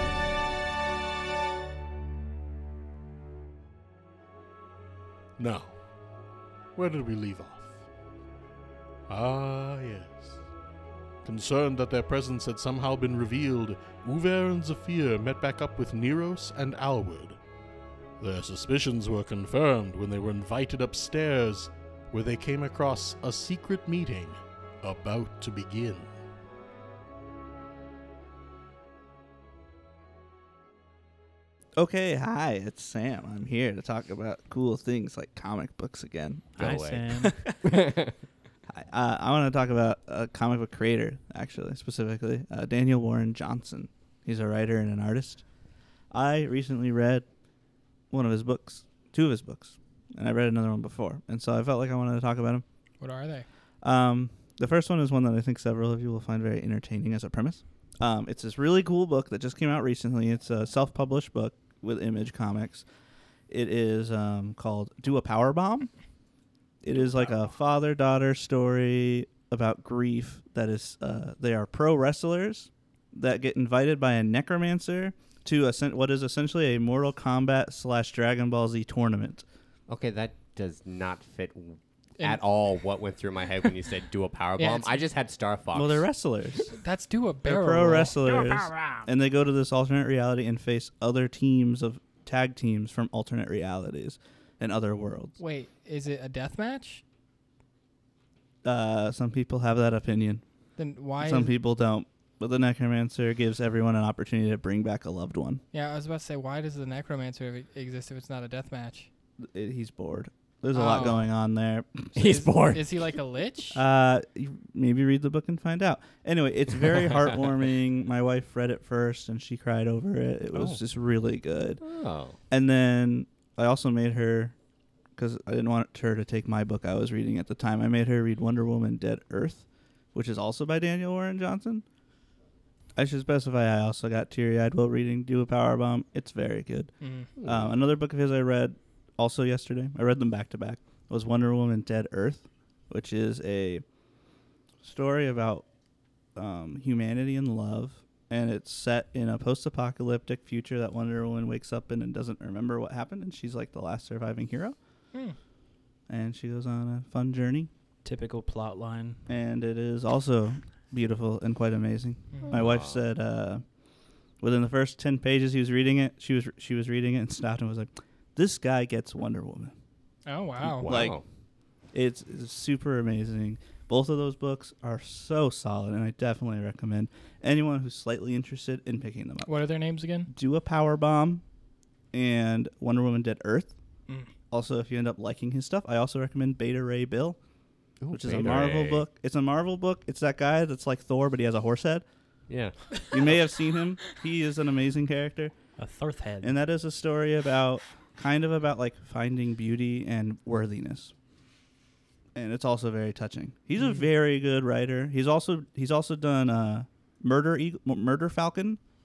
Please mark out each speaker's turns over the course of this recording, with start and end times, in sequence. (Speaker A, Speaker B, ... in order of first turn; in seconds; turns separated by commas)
Speaker A: 5.4-5.8, Speaker A: 6.8-7.7, Speaker A: 9.1-10.3, Speaker A: 11.2-17.4, Speaker A: 18.2-26.1, Speaker B: 31.8-36.6, Speaker C: 36.6-38.2, Speaker D: 36.6-37.3, Speaker B: 37.2-37.5, Speaker B: 38.7-45.5, Speaker B: 46.1-47.3, Speaker B: 48.1-52.6, Speaker E: 53.0-53.5, Speaker B: 53.8-62.9, Speaker B: 63.5-65.9, Speaker B: 66.8-79.5, Speaker C: 79.9-86.1, Speaker E: 84.6-85.0, Speaker B: 85.7-86.8, Speaker E: 86.8-88.8, Speaker B: 87.5-95.4, Speaker E: 95.4-97.0, Speaker B: 98.6-100.4, Speaker E: 100.8-101.5, Speaker B: 101.2-105.6, Speaker E: 105.7-109.1, Speaker B: 109.4-112.1, Speaker E: 110.7-111.3, Speaker C: 112.1-112.8, Speaker E: 112.2-113.8, Speaker B: 113.7-121.8, Speaker C: 121.8-122.4, Speaker B: 122.5-124.5, Speaker B: 125.2-131.8, Speaker B: 133.0-143.8, Speaker E: 137.0-137.3, Speaker C: 137.4-137.7, Speaker B: 144.8-145.7, Speaker B: 146.3-154.8, Speaker B: 156.1-157.7, Speaker D: 158.1-159.2, Speaker B: 159.3-163.6, Speaker C: 162.5-163.0, Speaker B: 164.4-169.7, Speaker E: 170.3-170.9, Speaker C: 170.7-171.2, Speaker B: 170.8-171.2, Speaker B: 171.9-179.6, Speaker E: 179.4-180.3, Speaker B: 180.3-181.4, Speaker B: 182.1-183.8, Speaker B: 184.5-187.4, Speaker C: 188.0-189.1, Speaker B: 188.1-192.0, Speaker C: 192.5-193.4, Speaker B: 193.1-195.5, Speaker D: 195.8-196.6, Speaker B: 196.4-201.1, Speaker B: 202.3-208.8, Speaker E: 203.8-204.1